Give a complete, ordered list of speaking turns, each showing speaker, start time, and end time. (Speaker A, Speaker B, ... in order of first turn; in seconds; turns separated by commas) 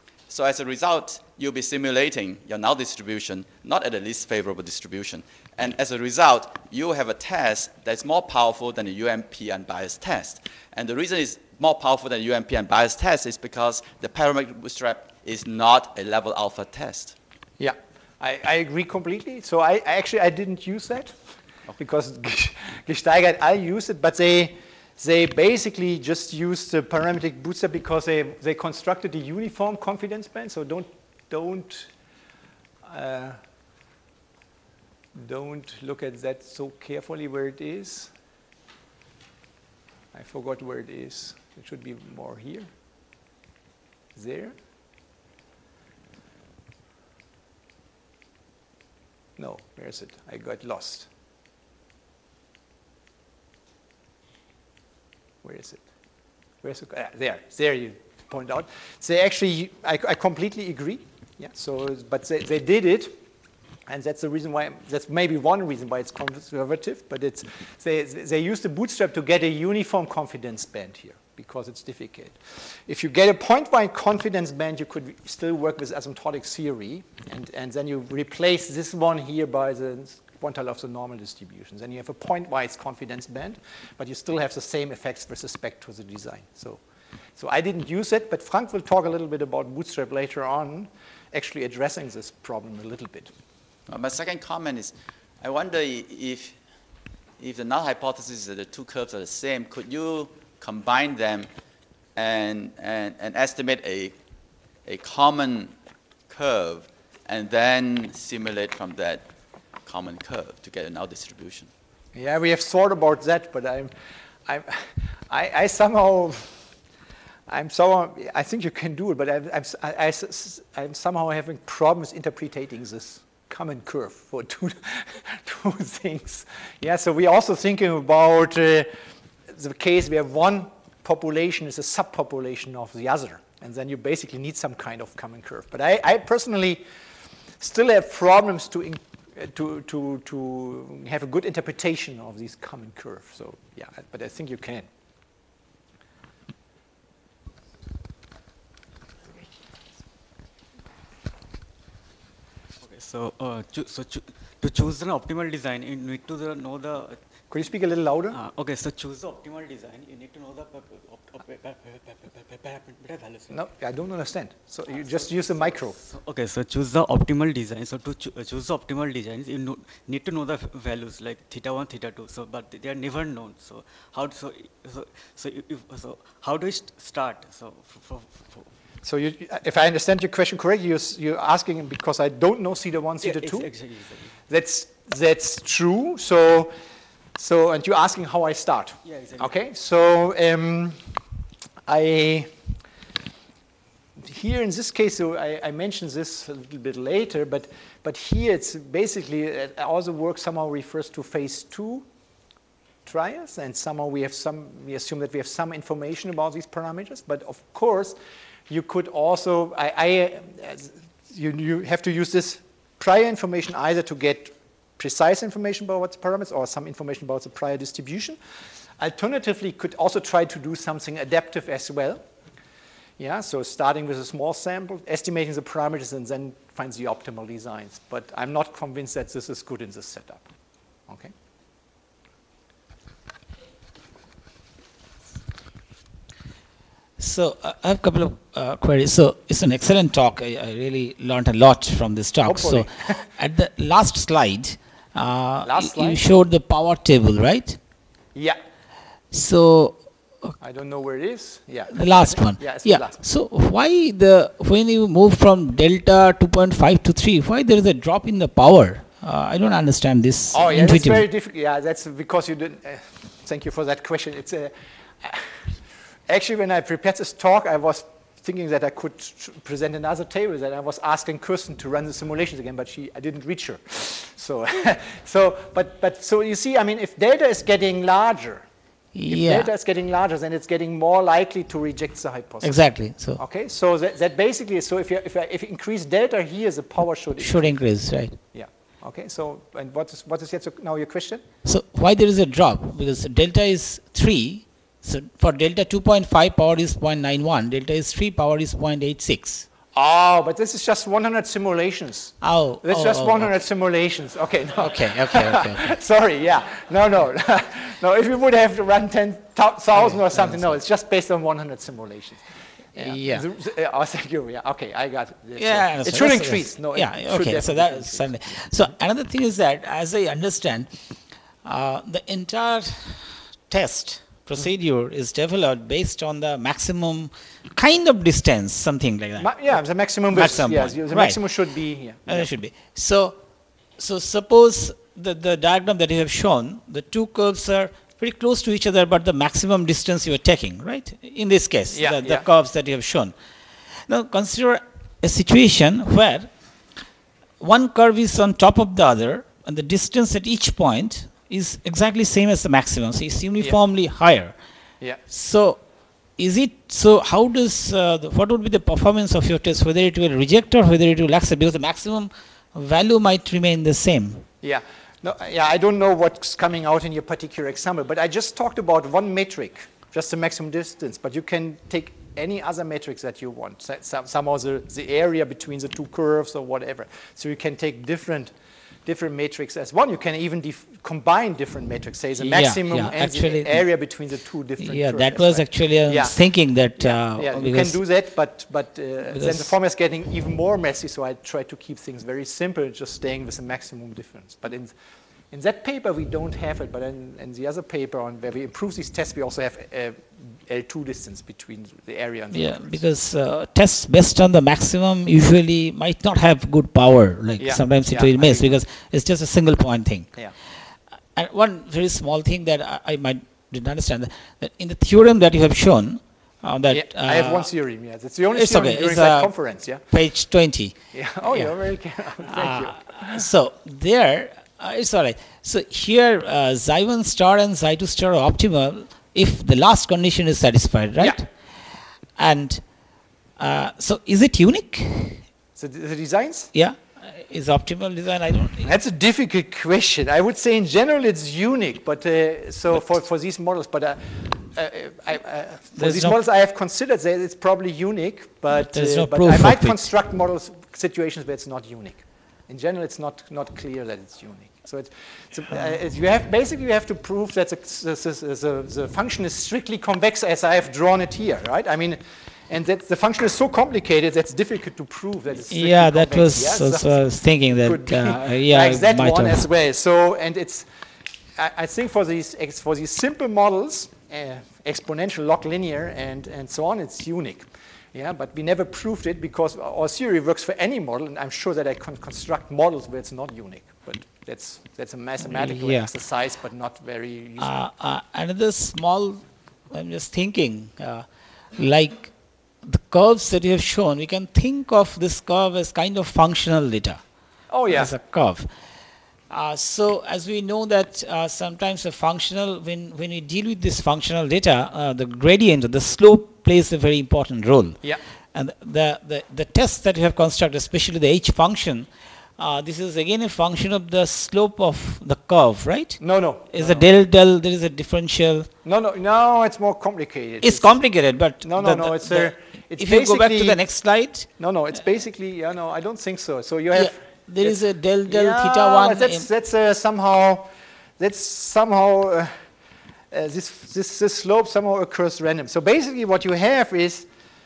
Speaker A: 0.3-17.1, Speaker B: 17.6-21.1, Speaker B: 21.8-31.9, Speaker B: 32.8-33.4, Speaker B: 35.1-38.1, Speaker B: 40.1-42.7, Speaker B: 44.1-44.5, Speaker B: 49.4-51.1, Speaker B: 55.4-55.8, Speaker B: 56.6-63.1, Speaker B: 63.9-86.8, Speaker B: 87.4-93.3, Speaker A: 93.9-96.6, Speaker A: 97.4-101.5, Speaker A: 102.1-104.2, Speaker A: 104.8-105.7, Speaker A: 106.3-109.3, Speaker A: 109.8-111.7, Speaker B: 112.1-113.9, Speaker B: 114.5-116.6, Speaker B: 117.5-128.9, Speaker B: 129.5-136.8, Speaker B: 137.6-144.9, Speaker C: 152.8-157.2, Speaker B: 157.5-158.4, Speaker C: 158.3-163.6, Speaker B: 163.5-165.9, Speaker C: 164.9-178.7, Speaker B: 179.0-183.7, Speaker C: 183.2-184.4, Speaker B: 184.5-186.7, Speaker B: 187.4-191.0, Speaker C: 189.0-189.6, Speaker B: 191.9-192.5, Speaker B: 194.2-202.1, Speaker B: 203.1-218.4, Speaker B: 219.0-222.2, Speaker B: 223.2-230.5, Speaker D: 237.2-247.8, Speaker B: 242.4-243.2, Speaker B: 245.6-246.2, Speaker D: 249.3-250.5, Speaker B: 250.6-253.2, Speaker D: 251.9-261.2, Speaker B: 260.5-265.5, Speaker B: 266.3-278.6, Speaker D: 279.1-279.7, Speaker B: 279.3-287.9, Speaker D: 282.6-283.4, Speaker D: 287.4-288.4, Speaker B: 288.5-291.4, Speaker D: 291.6-299.6, Speaker B: 299.9-312.4, Speaker D: 302.4-303.5, Speaker D: 304.8-305.9, Speaker D: 310.0-310.7, Speaker B: 312.9-318.3, Speaker D: 312.9-313.4, Speaker D: 315.6-320.9, Speaker D: 321.6-331.4, Speaker B: 329.4-332.5, Speaker D: 332.2-333.4, Speaker D: 334.0-343.3, Speaker B: 341.9-342.5, Speaker D: 344.1-346.5, Speaker D: 347.6-354.5, Speaker D: 355.3-355.8, Speaker D: 356.4-364.4, Speaker B: 364.6-378.5, Speaker B: 379.1-386.4, Speaker D: 382.4-383.8, Speaker D: 384.8-388.0, Speaker B: 386.9-394.9, Speaker D: 389.3-389.7, Speaker B: 395.5-403.0, Speaker D: 402.5-410.5, Speaker B: 407.6-408.7, Speaker D: 411.3-417.7, Speaker B: 416.9-420.0, Speaker D: 418.5-421.9, Speaker B: 421.1-423.4, Speaker D: 422.4-431.5, Speaker D: 432.4-432.9, Speaker D: 433.6-435.4, Speaker B: 435.8-436.7, Speaker D: 436.7-438.9, Speaker B: 438.8-470.9, Speaker D: 445.9-446.3, Speaker D: 448.7-450.0, Speaker D: 465.7-469.6, Speaker B: 471.6-487.7, Speaker D: 485.5-486.1, Speaker D: 487.6-497.2, Speaker B: 497.7-498.1, Speaker D: 497.9-498.7, Speaker D: 499.5-518.7, Speaker B: 516.2-517.0, Speaker B: 518.8-532.5, Speaker D: 520.6-524.5, Speaker D: 526.9-529.5, Speaker B: 533.3-537.3